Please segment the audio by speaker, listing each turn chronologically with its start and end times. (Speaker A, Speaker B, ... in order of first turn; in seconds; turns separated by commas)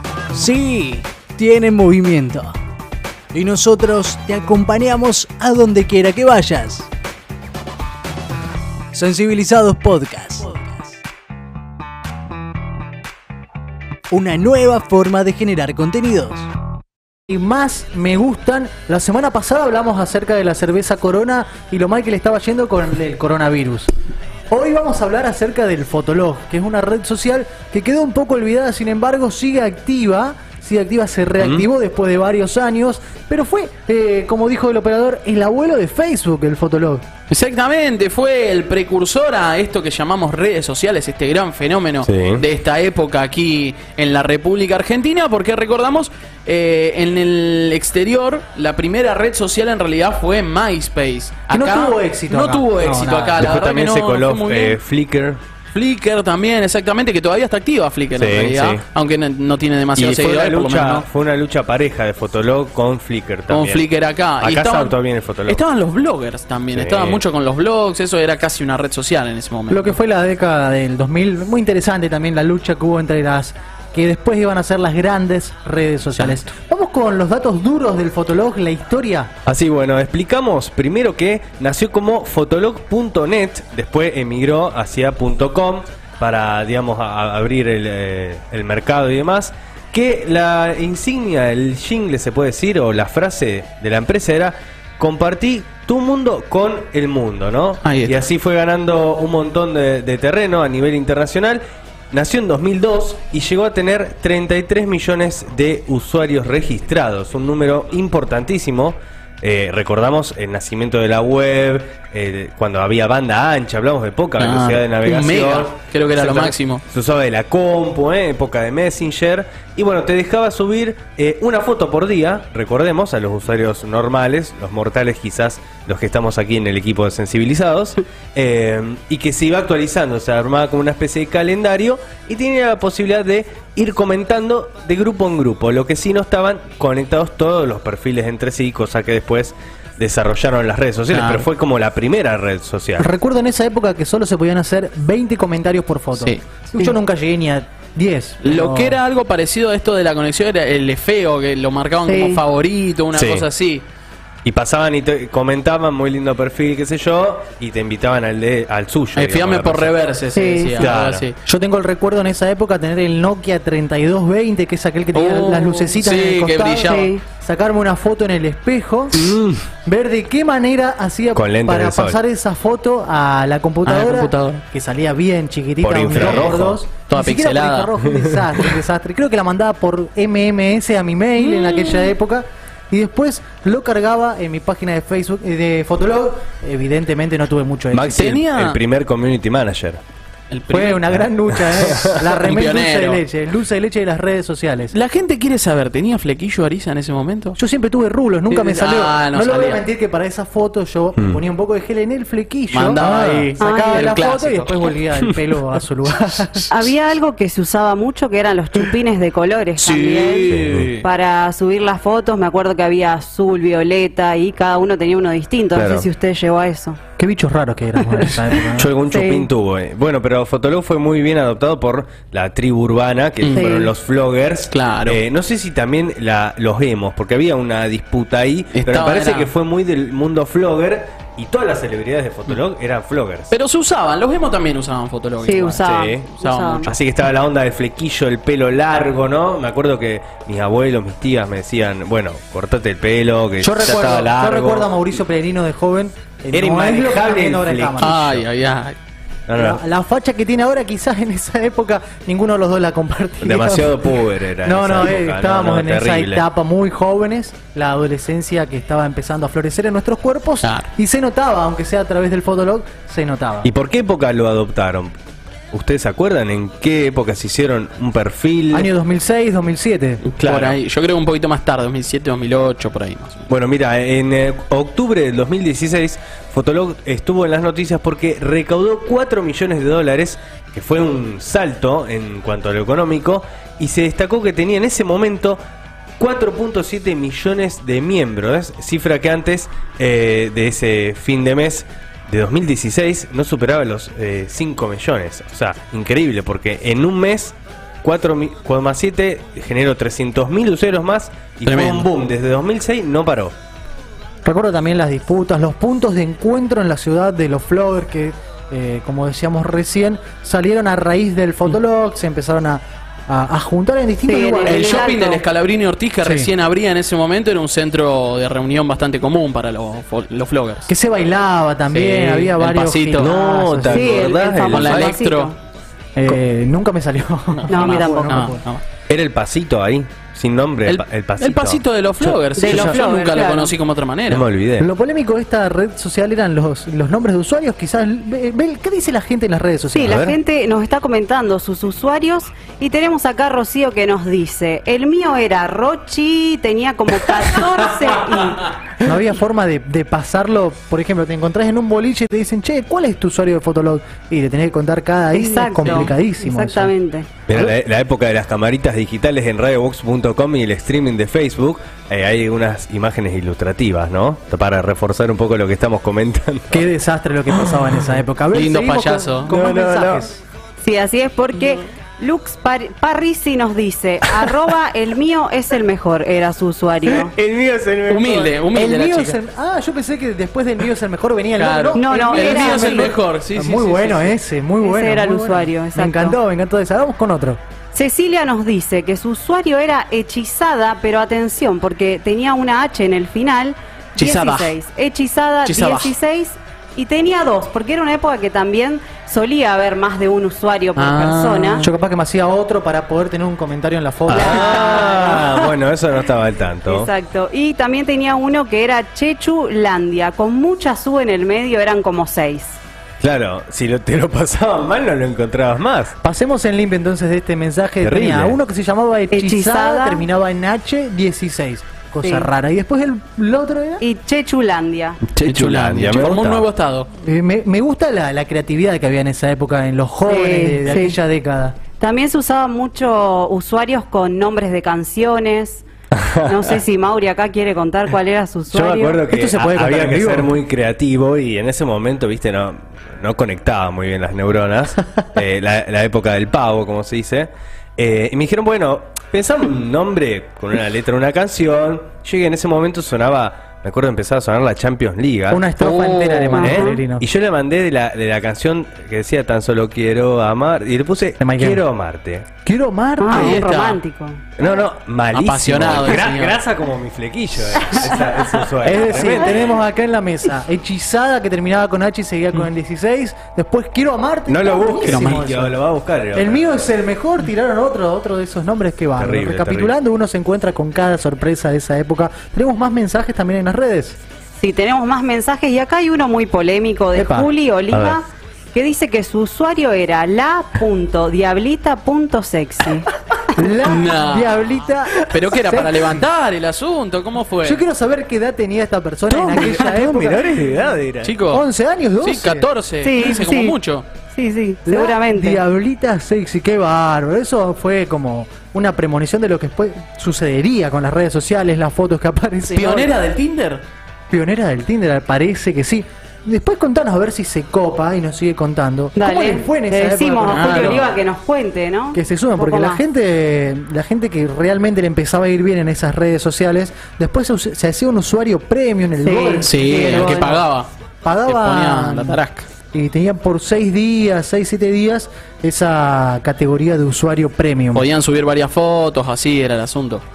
Speaker A: 0.3-2.5, Speaker A: 3.3-6.9, Speaker A: 8.9-11.0, Speaker A: 14.1-16.5, Speaker B: 17.3-23.9, Speaker B: 24.5-37.0, Speaker C: 31.4-31.6, Speaker D: 37.3-54.8, Speaker C: 42.0-42.4, Speaker B: 51.5-53.5, Speaker C: 53.4-55.4, Speaker D: 55.7-61.1, Speaker C: 58.1-58.8, Speaker C: 60.0-63.9, Speaker D: 63.5-70.0, Speaker C: 64.4-65.6, Speaker C: 66.7-67.2, Speaker B: 69.7-79.3, Speaker C: 79.4-143.1, Speaker D: 97.8-98.1, Speaker D: 114.4-116.8, Speaker D: 141.1-141.4, Speaker B: 143.0-149.0, Speaker D: 146.1-146.4, Speaker D: 148.4-153.8, Speaker E: 152.1-152.4, Speaker C: 153.1-153.5, Speaker C: 154.4-159.9, Speaker D: 159.1-161.3, Speaker E: 160.3-160.9, Speaker C: 160.8-161.2, Speaker B: 161.4-169.3, Speaker D: 165.1-167.2, Speaker E: 166.8-167.2, Speaker C: 169.1-169.7, Speaker B: 169.8-188.1, Speaker C: 171.3-172.2, Speaker D: 173.8-174.6, Speaker C: 175.8-176.8, Speaker D: 176.1-177.9, Speaker D: 181.4-182.1, Speaker C: 187.9-190.0, Speaker D: 188.1-188.8, Speaker D: 190.5-191.2, Speaker B: 190.7-194.9, Speaker C: 191.9-192.2, Speaker D: 192.2-193.2, Speaker D: 194.9-197.6, Speaker B: 197.6-206.7, Speaker D: 198.5-199.8, Speaker D: 202.7-204.9, Speaker E: 203.6-204.2, Speaker E: 206.7-217.0, Speaker D: 209.8-211.0, Speaker C: 210.5-210.9, Speaker C: 215.7-216.1, Speaker B: 217.2-218.9, Speaker C: 218.8-233.5, Speaker E: 218.9-219.5, Speaker D: 223.4-223.8, Speaker E: 223.5-223.9, Speaker D: 224.7-225.2, Speaker D: 228.7-229.5, Speaker D: 233.5-235.9, Speaker E: 235.4-236.9, Speaker C: 235.8-236.3, Speaker D: 236.4-236.9, Speaker C: 236.8-245.1, Speaker B: 243.6-248.2, Speaker C: 246.5-248.4, Speaker D: 248.0-248.9, Speaker C: 249.5-249.8, Speaker B: 249.6-263.7, Speaker C: 253.4-256.4, Speaker D: 260.6-260.9, Speaker C: 263.6-265.1, Speaker C: 265.7-268.9, Speaker B: 268.7-270.7, Speaker D: 270.2-273.4, Speaker C: 270.4-270.8, Speaker C: 273.5-285.6, Speaker C: 286.2-303.5, Speaker D: 301.6-302.1, Speaker B: 304.4-315.1, Speaker E: 314.2-315.4, Speaker D: 314.6-320.9, Speaker B: 316.2-316.5, Speaker B: 320.9-324.1, Speaker D: 321.9-323.3, Speaker C: 323.2-325.1, Speaker E: 323.9-325.6, Speaker D: 324.6-325.5, Speaker B: 326.1-328.6, Speaker D: 327.5-328.8, Speaker E: 327.7-328.5, Speaker C: 329.1-332.4, Speaker D: 330.9-334.5, Speaker E: 332.6-333.7, Speaker B: 332.6-333.0, Speaker C: 334.3-334.9, Speaker B: 334.8-340.2, Speaker E: 339.9-348.8, Speaker C: 340.0-340.4, Speaker B: 349.0-356.9, Speaker E: 355.3-357.3, Speaker D: 355.8-356.1, Speaker C: 357.5-366.9, Speaker B: 366.7-370.4, Speaker C: 367.5-368.2, Speaker D: 368.5-369.6, Speaker C: 369.5-370.3, Speaker E: 370.8-377.3, Speaker C: 377.1-378.6, Speaker D: 378.1-379.4, Speaker B: 378.7-387.6, Speaker D: 381.6-384.4, Speaker E: 381.9-383.1, Speaker E: 384.8-386.4, Speaker E: 387.9-401.9, Speaker D: 394.1-394.7, Speaker D: 395.6-396.1, Speaker D: 400.9-401.9, Speaker B: 401.8-404.9, Speaker C: 404.3-407.1, Speaker E: 404.3-405.7, Speaker E: 406.8-412.8, Speaker C: 413.2-416.1, Speaker B: 416.2-424.0, Speaker C: 418.0-418.6, Speaker E: 419.3-420.2, Speaker E: 422.2-422.5, Speaker E: 424.0-425.2, Speaker C: 425.3-426.6, Speaker D: 425.4-427.1, Speaker B: 427.2-431.8, Speaker E: 430.2-431.2, Speaker E: 432.0-435.8, Speaker C: 436.1-436.8, Speaker E: 436.4-439.2, Speaker C: 438.7-455.6, Speaker B: 439.3-440.5, Speaker B: 455.5-457.2, Speaker D: 455.8-456.7, Speaker E: 456.6-457.0, Speaker C: 456.6-462.5, Speaker B: 461.4-461.8, Speaker B: 462.6-463.6, Speaker E: 463.2-464.4, Speaker D: 463.3-464.0, Speaker C: 464.6-469.8, Speaker D: 465.3-466.6, Speaker E: 467.8-468.3, Speaker B: 468.8-475.8, Speaker E: 468.9-469.6, Speaker C: 474.5-476.8, Speaker D: 475.0-475.5, Speaker B: 476.3-484.2, Speaker C: 479.2-479.9, Speaker E: 484.6-493.1, Speaker B: 487.1-487.5, Speaker C: 487.9-488.2, Speaker B: 493.6-496.3, Speaker D: 493.8-497.8, Speaker B: 497.6-500.6, Speaker C: 499.3-501.4, Speaker D: 501.2-501.6, Speaker B: 501.5-502.7, Speaker D: 502.2-504.1, Speaker E: 503.0-503.8, Speaker E: 504.3-505.6, Speaker B: 504.9-513.1, Speaker D: 512.7-513.8, Speaker B: 514.3-521.1, Speaker E: 519.1-523.0, Speaker D: 520.5-521.0, Speaker B: 522.1-530.7, Speaker E: 529.2-530.6, Speaker D: 529.6-530.9, Speaker B: 531.2-532.4, Speaker D: 531.5-532.7, Speaker B: 532.9-538.0, Speaker D: 537.9-540.2